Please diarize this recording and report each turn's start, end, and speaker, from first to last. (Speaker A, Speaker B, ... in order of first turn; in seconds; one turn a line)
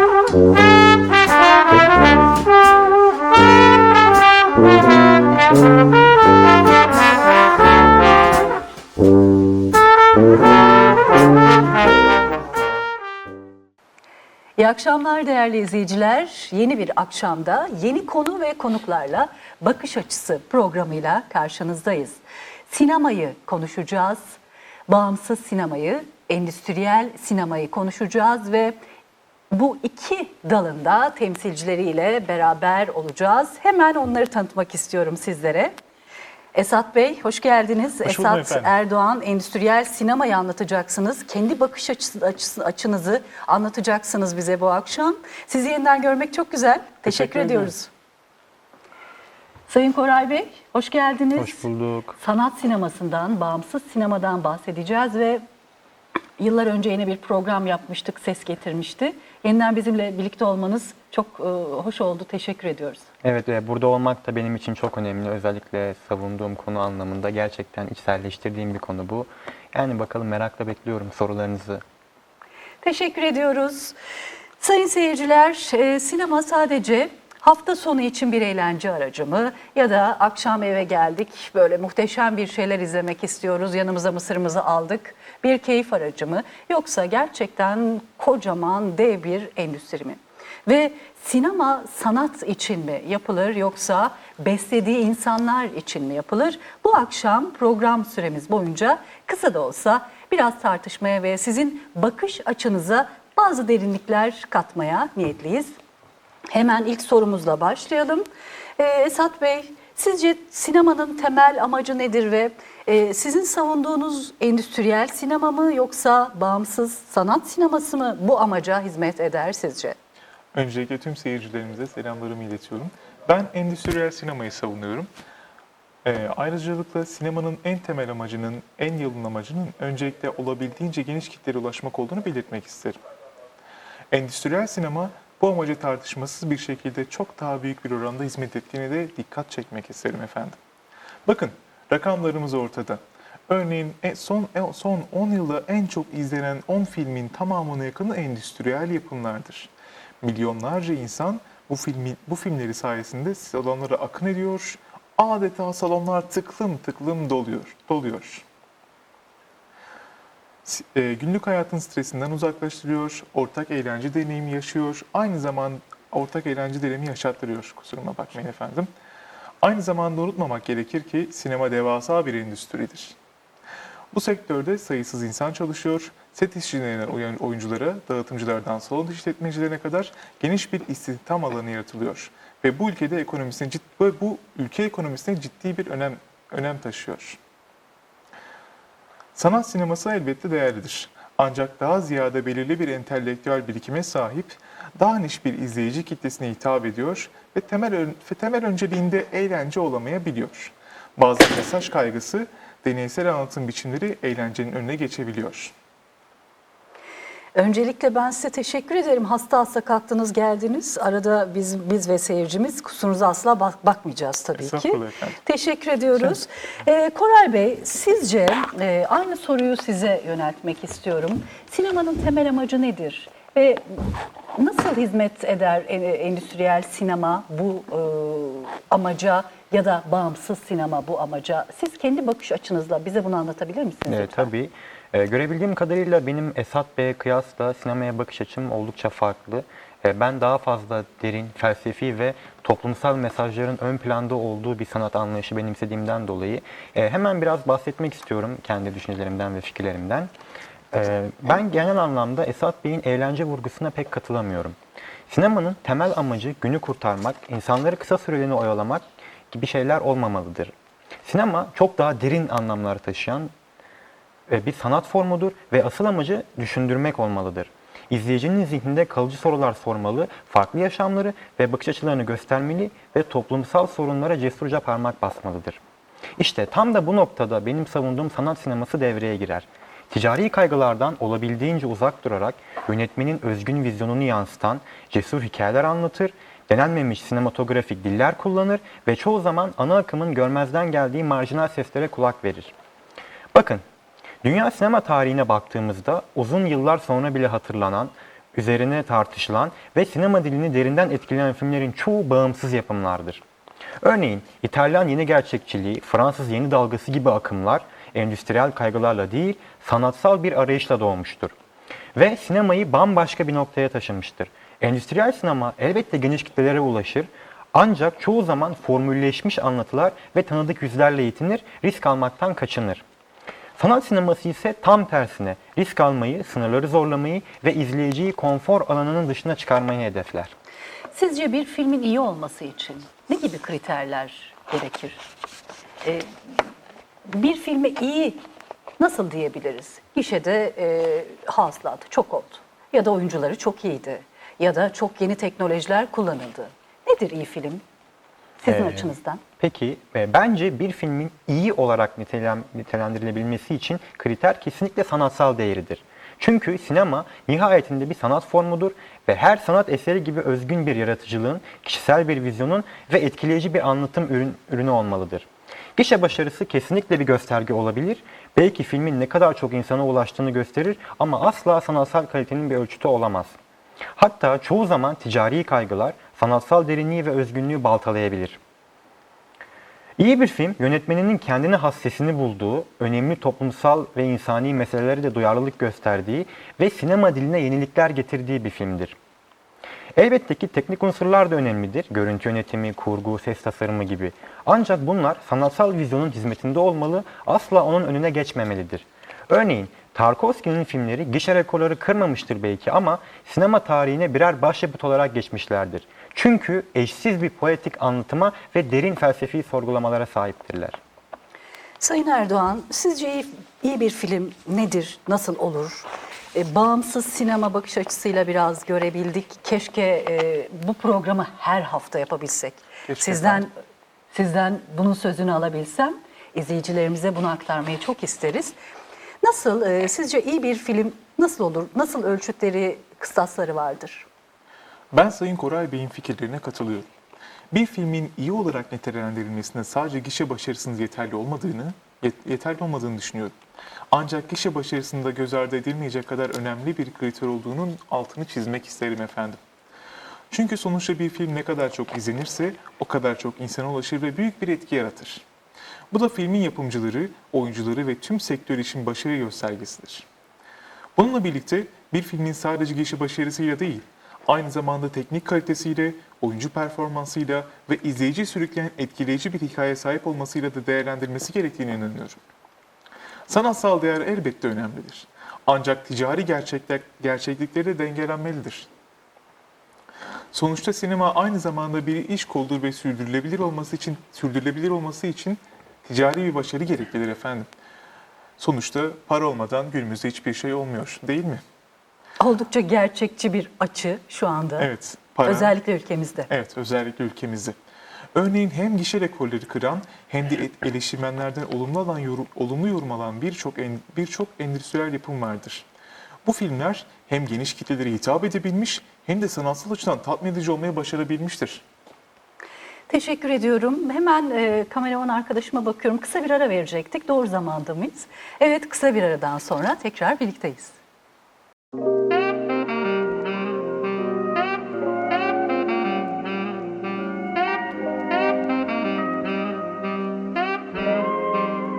Speaker A: 14.6-24.4
Speaker A: 24.9-28.8
Speaker A: 29.5-35.7
Speaker A: 36.5-47.9
Speaker B: 38.0-38.7
Speaker B: 47.0-47.7
Speaker A: 49.7-55.4
Speaker C: 51.4-52.1
Speaker A: 56.4-63.0
Speaker C: 63.2-71.8
Speaker A: 72.8-74.0
Speaker A: 74.6-105.7
Speaker A: 106.5-108.2
Speaker A: 108.8-120.0
Speaker B: 120.5-125.1
Speaker B: 126.0-133.0
Speaker B: 134.1-140.6
Speaker B: 141.2-149.7
Speaker B: 150.2-158.4
Speaker B: 160.7-168.9
Speaker B: 169.6-173.2
Speaker B: 174.1-187.4
Speaker B: 189.3-205.7
Speaker A: 207.5-224.0
Speaker B: 214.6-215.4
Speaker A: 224.6-234.5
Speaker C: 234.1-250.3
Speaker C: 250.9-254.8
Speaker C: 255.3-263.5
Speaker C: 264.5-275.8
Speaker C: 276.4-292.7
Speaker C: 293.5-293.8
Speaker C: 294.4-303.4
Speaker C: 304.0-311.5
Speaker C: 312.1-323.0
Speaker C: 323.8-330.5
Speaker A: 331.1-335.2
Speaker A: 336.0-336.3
Speaker A: 337.3-338.4
Speaker A: 339.0-347.8
Speaker A: 348.6-349.4
Speaker C: 348.7-373.5
Speaker C: 374.1-378.6
Speaker C: 380.2-389.2
Speaker C: 390.1-411.0
Speaker A: 412.0-423.7
Speaker B: 423.1-423.6
Speaker A: 424.3-428.7
Speaker A: 429.4-434.3
Speaker B: 435.1-437.1
Speaker B: 437.7-443.6
Speaker B: 444.1-449.6
Speaker B: 450.5-455.4
Speaker B: 456.1-460.2
Speaker B: 461.2-472.4
Speaker B: 473.5-478.9
Speaker B: 480.5-487.7
Speaker B: 488.6-491.6
Speaker A: 492.4-494.9
Speaker B: 494.8-495.7
Speaker A: 495.4-496.5
Speaker B: 496.5-497.8
Speaker B: 498.3-505.9
Speaker B: 506.4-511.8
Speaker A: 513.1-521.0